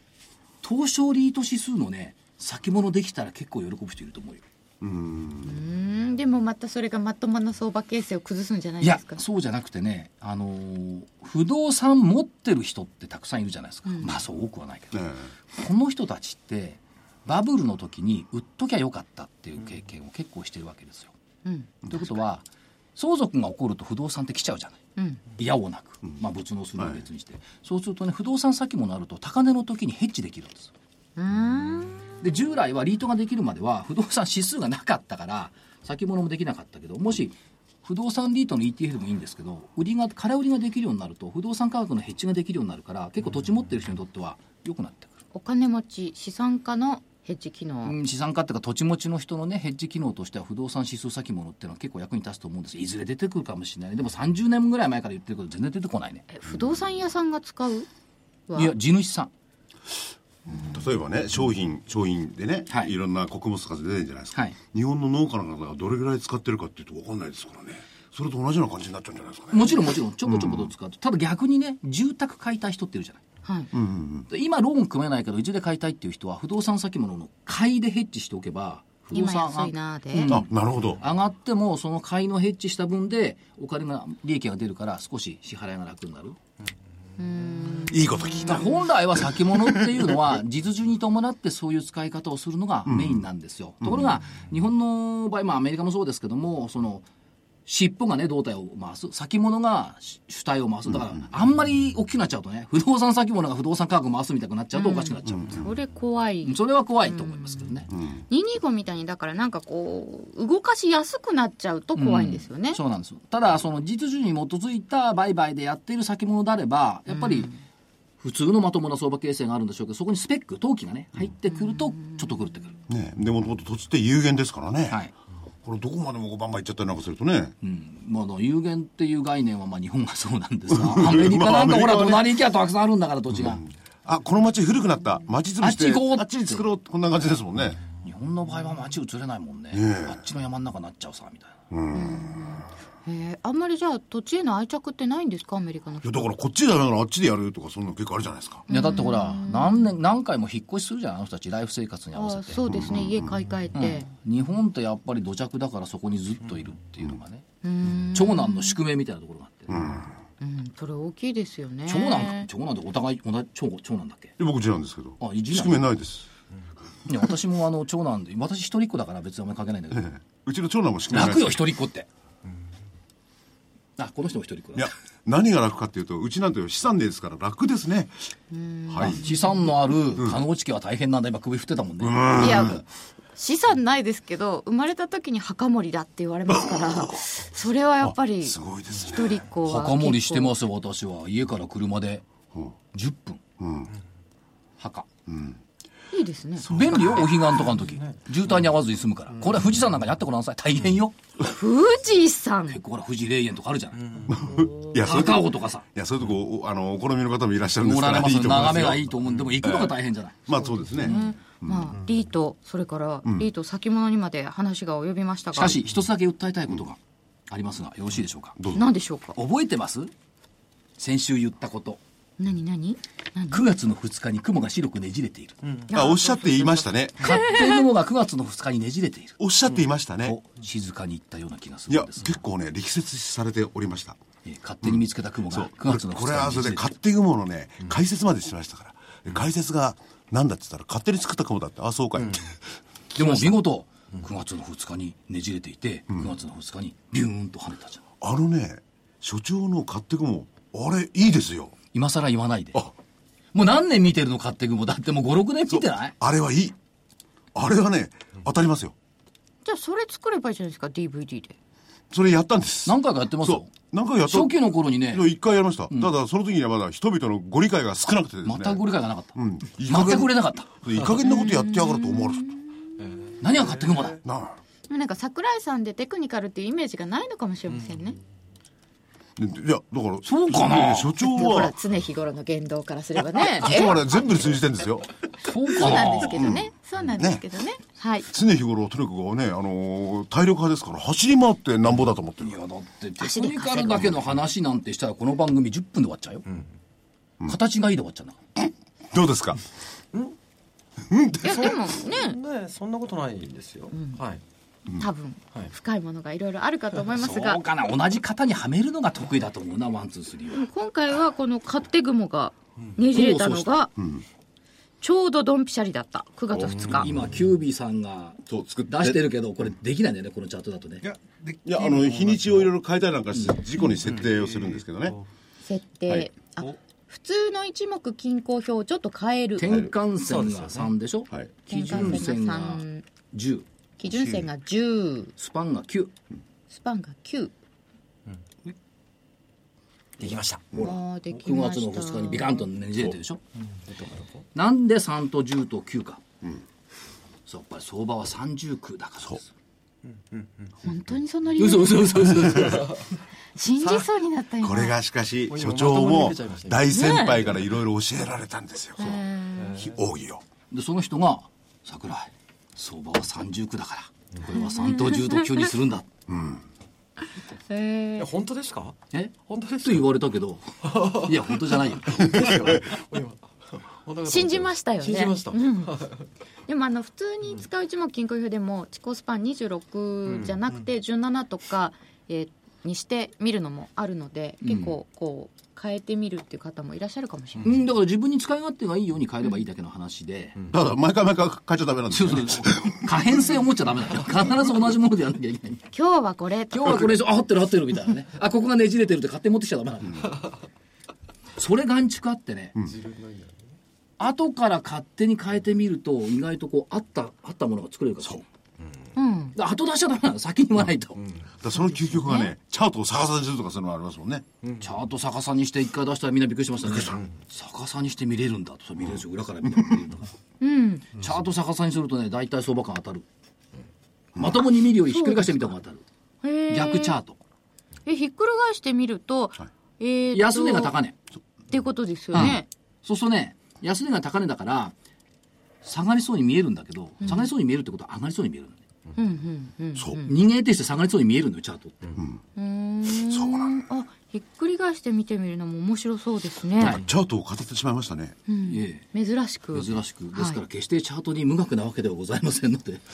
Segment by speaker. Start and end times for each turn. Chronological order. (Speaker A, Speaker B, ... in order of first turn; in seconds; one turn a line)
Speaker A: 0.6-4.4
Speaker B: 4.8-5.6
Speaker C: 5.4-9.2
Speaker A: 8.8-21.1
Speaker C: 13.9-14.2
Speaker B: 14.9-15.3
Speaker C: 21.4-21.7
Speaker A: 21.9-24.8
Speaker A: 25.4-30.7
Speaker B: 26.8-27.0
Speaker C: 31.1-32.2
Speaker A: 32.2-45.1
Speaker C: 45.3-48.0
Speaker A: 47.8-56.2
Speaker C: 56.3-57.9
Speaker B: 56.5-56.8
Speaker C: 58.5-58.7
Speaker A: 58.5-59.3
Speaker B: 60.5-70.7
Speaker C: 60.5-60.7
Speaker A: 69.5-73.2
Speaker C: 73.4-73.7
Speaker B: 73.7-74.3
Speaker A: 74.3-86.4
Speaker C: 79.1-80.4
Speaker B: 80.3-81.0
Speaker C: 87.2-88.8
Speaker B: 87.9-90.3
Speaker A: 88.4-97.0
Speaker B: 92.8-93.3
Speaker B: 93.8-94.2
Speaker A: 97.7-105.7
Speaker B: 100.9-101.2
Speaker C: 104.7-112.8
Speaker B: 105.3-105.7
Speaker A: 106.4-107.9
Speaker B: 107.9-108.2
Speaker A: 111.9-117.5
Speaker C: 117.1-117.6
Speaker A: 118.2-122.6
Speaker C: 121.5-122.8
Speaker B: 122.9-125.0
Speaker B: 125.6-127.5
Speaker A: 127.6-133.6
Speaker B: 130.7-132.4
Speaker B: 133.3-137.8
Speaker A: 135.6-136.6
Speaker A: 138.0-141.6
Speaker B: 139.7-140.2
Speaker B: 141.7-142.7
Speaker C: 141.9-146.3
Speaker B: 146.0-148.7
Speaker C: 148.7-149.9
Speaker A: 148.7-152.6
Speaker C: 152.1-154.1
Speaker B: 152.7-153.3
Speaker A: 153.7-157.4
Speaker C: 157.6-158.8
Speaker A: 158.0-159.8
Speaker B: 159.7-160.1
Speaker C: 160.4-162.5
Speaker A: 161.9-164.3
Speaker B: 164.4-166.2
Speaker A: 165.2-165.8
Speaker A: 167.1-170.1
Speaker B: 169.9-171.7
Speaker A: 171.1-172.1
Speaker A: 174.0-174.9
Speaker B: 174.7-178.3
Speaker C: 178.5-179.7
Speaker B: 178.8-179.3
Speaker A: 179.0-182.8
Speaker B: 180.2-180.4
Speaker B: 182.0-182.8
Speaker C: 182.4-182.8
Speaker C: 183.3-190.5
Speaker B: 186.5-187.2
Speaker B: 188.0-189.4
Speaker A: 189.6-192.2
Speaker A: 192.9-193.4
Speaker B: 193.6-193.9
Speaker A: 194.8-195.1
Speaker B: 195.3-195.6
Speaker C: 196.1-196.7
Speaker B: 196.7-197.6
Speaker A: 196.7-201.2
Speaker D: 197.9-198.2
Speaker E: 199.3-199.6
Speaker C: 201.4-202.8
Speaker A: 202.7-204.3
Speaker D: 204.0-204.3
Speaker B: 204.3-211.9
Speaker C: 204.5-205.0
Speaker A: 205.0-205.8
Speaker A: 207.8-211.3
Speaker C: 210.5-215.8
Speaker A: 215.5-218.6
Speaker B: 218.6-218.9
Speaker C: 218.7-219.4
Speaker A: 219.3-220.1
Speaker A: 221.0-222.0
Speaker C: 222.4-223.6
Speaker A: 223.5-225.6
Speaker D: 225.6-225.9
Speaker B: 225.9-227.4
Speaker C: 225.9-227.7
Speaker A: 227.2-229.4
Speaker B: 229.4-230.4
Speaker A: 230.2-232.4
Speaker B: 231.9-234.2
Speaker A: 234.4-236.9
Speaker B: 234.8-242.6
Speaker D: 242.2-242.4
Speaker A: 243.1-248.0
Speaker B: 243.2-243.5
Speaker B: 248.2-251.7
Speaker A: 251.9-252.9
Speaker A: 253.5-256.1
Speaker B: 255.7-256.8
Speaker B: 257.5-258.9
Speaker C: 259.6-261.6
Speaker B: 262.1-272.6
Speaker A: 262.9-265.3
Speaker A: 268.4-270.7
Speaker C: 271.2-273.0
Speaker D: 273.0-274.2
Speaker A: 273.4-274.2
Speaker B: 274.2-274.6
Speaker C: 274.9-278.2
Speaker B: 279.4-281.7
Speaker A: 280.2-281.7
Speaker C: 281.3-284.0
Speaker B: 283.5-285.1
Speaker A: 285.4-286.4
Speaker C: 285.7-288.3
Speaker B: 285.9-287.4
Speaker B: 288.3-292.6
Speaker A: 292.4-296.4
Speaker C: 293.2-294.1
Speaker A: 297.4-298.4
Speaker B: 298.6-299.6
Speaker B: 301.0-301.8
Speaker C: 301.4-302.4
Speaker D: 301.5-304.4
Speaker C: 303.9-304.2
Speaker C: 305.0-307.6
Speaker A: 307.1-310.6
Speaker C: 310.5-313.9
Speaker A: 313.0-313.7
Speaker B: 314.0-314.2
Speaker C: 315.0-317.1
Speaker D: 316.5-317.1
Speaker A: 316.9-321.0
Speaker B: 318.4-319.3
Speaker E: 321.0-322.7
Speaker B: 321.6-325.1
Speaker D: 324.0-324.8
Speaker C: 325.6-329.8
Speaker A: 329.6-334.4
Speaker D: 330.2-330.9
Speaker B: 331.3-332.2
Speaker C: 331.7-333.1
Speaker C: 334.0-335.3
Speaker A: 335.4-336.1
Speaker C: 336.7-337.5
Speaker D: 340.2-340.6
Speaker A: 340.7-343.4
Speaker C: 340.8-342.7
Speaker D: 343.9-344.4
Speaker A: 344.5-346.2
Speaker A: 347.5-349.5
Speaker D: 350.0-350.7
Speaker C: 350.8-352.6
Speaker A: 351.6-353.0
Speaker B: 352.3-352.8
Speaker C: 353.5-354.9
Speaker B: 354.6-359.2
Speaker D: 355.5-357.7
Speaker C: 356.9-357.4
Speaker C: 359.0-359.8
Speaker D: 359.6-360.0
Speaker B: 359.8-360.4
Speaker A: 360.7-366.1
Speaker C: 364.5-365.6
Speaker B: 366.3-366.6
Speaker C: 367.7-368.3
Speaker D: 368.1-370.2
Speaker A: 369.1-372.5
Speaker D: 370.8-376.3
Speaker C: 374.2-376.0
Speaker C: 376.7-387.8
Speaker D: 380.2-380.6
Speaker A: 384.6-385.0
Speaker A: 387.6-390.6
Speaker B: 390.7-393.4
Speaker A: 392.1-395.9
Speaker C: 395.9-397.1
Speaker A: 396.7-400.4
Speaker A: 401.6-402.7
Speaker D: 402.9-403.6
Speaker A: 404.2-408.4
Speaker C: 409.1-409.6
Speaker A: 409.5-411.2
Speaker D: 411.2-411.5
Speaker B: 411.6-414.4
Speaker C: 411.7-412.5
Speaker D: 414.6-414.9
Speaker A: 414.8-420.3
Speaker B: 416.8-417.2
Speaker B: 419.7-420.0
Speaker C: 420.6-421.1
Speaker A: 421.2-423.2
Speaker B: 424.3-424.6
Speaker A: 424.4-426.0
Speaker C: 425.0-425.7
Speaker C: 426.4-427.2
Speaker A: 426.7-427.4
Speaker C: 428.1-430.9
Speaker A: 430.3-431.1
Speaker C: 431.7-432.7
Speaker A: 432.3-434.9
Speaker A: 435.8-438.8
Speaker C: 437.2-437.5
Speaker C: 439.1-440.4
Speaker B: 439.9-440.2
Speaker A: 440.2-442.0
Speaker C: 442.6-447.0
Speaker B: 443.2-443.8
Speaker B: 446.8-448.4
Speaker C: 448.5-450.6
Speaker A: 448.6-449.1
Speaker A: 449.7-453.0